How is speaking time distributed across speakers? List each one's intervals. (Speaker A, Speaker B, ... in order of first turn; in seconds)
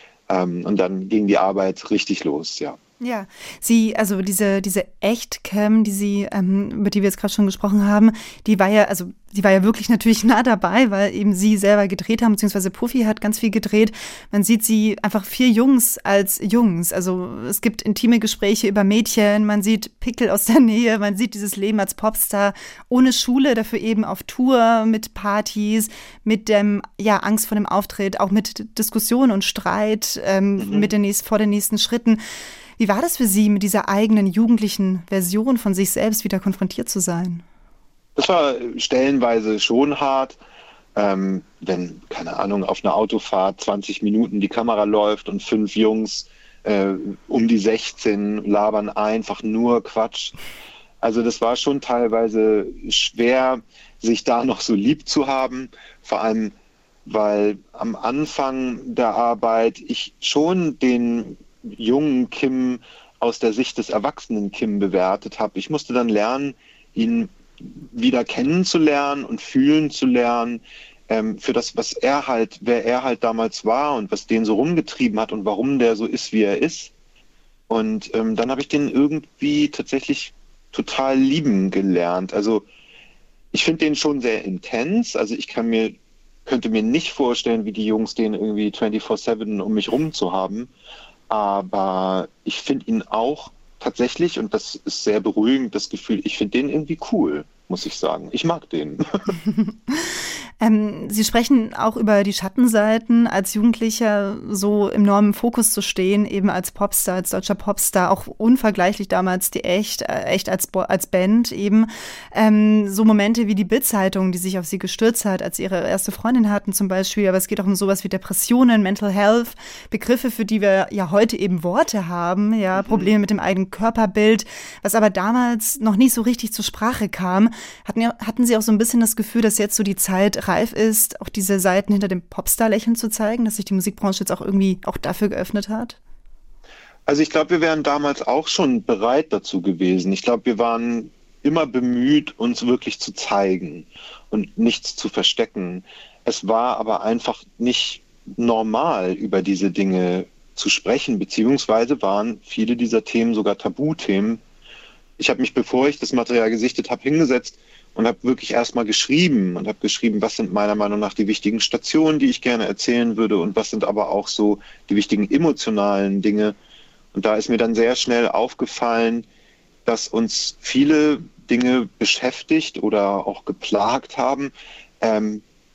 Speaker A: 0.3-2.8, 30.6-30.9, 38.2-40.4, 41.0-50.4, 51.0-56.5, 57.1-76.9, 77.7-82.7, 83.5-86.0, 86.5-90.7, 91.3-99.4, 122.7-123.1, 137.1-154.4, 155.2-166.6, 167.1-169.3, 169.9-175.4
Speaker B: 3.0-32.2, 32.8-37.4, 99.4-136.0